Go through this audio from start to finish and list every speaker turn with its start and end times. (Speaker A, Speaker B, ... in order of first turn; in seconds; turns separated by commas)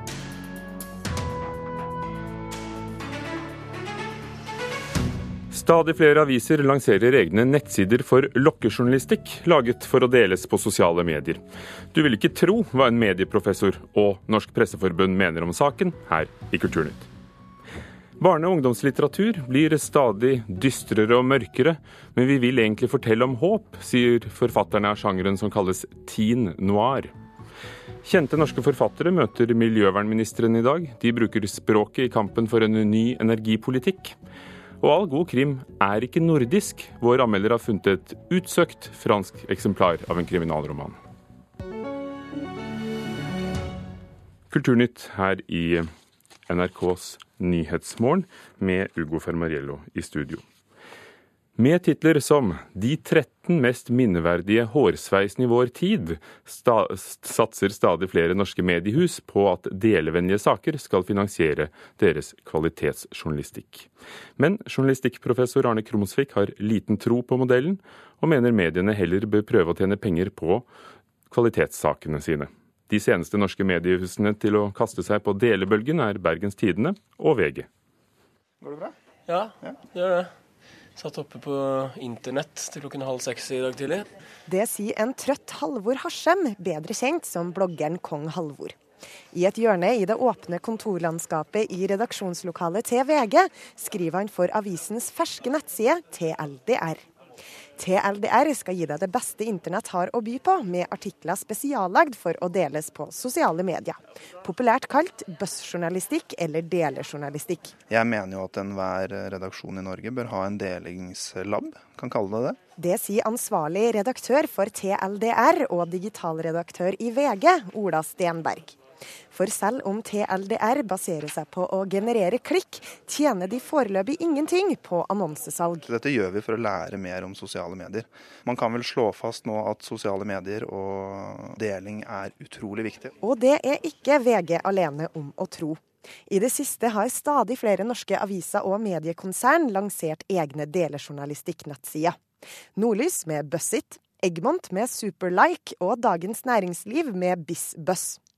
Speaker A: 5.5-11.4, Speaker A: 11.9-17.1, Speaker A: 18.2-27.1, Speaker A: 28.0-34.1, Speaker A: 34.8-41.0, Speaker A: 44.5-45.9, Speaker A: 46.5-50.4, Speaker A: 51.6-70.7, Speaker A: 71.3-77.7, Speaker B: 78.6-78.9, Speaker C: 79.3-80.3, Speaker C: 81.0-84.0, Speaker D: 84.5-88.8, Speaker D: 89.3-97.0, Speaker D: 97.8-107.8, Speaker B: 107.9-112.6, Speaker D: 112.8-118.8, Speaker D: 119.3-125.9, Speaker B: 125.9-133.2, Speaker D: 133.2-142.2, Speaker D: 142.8-148.2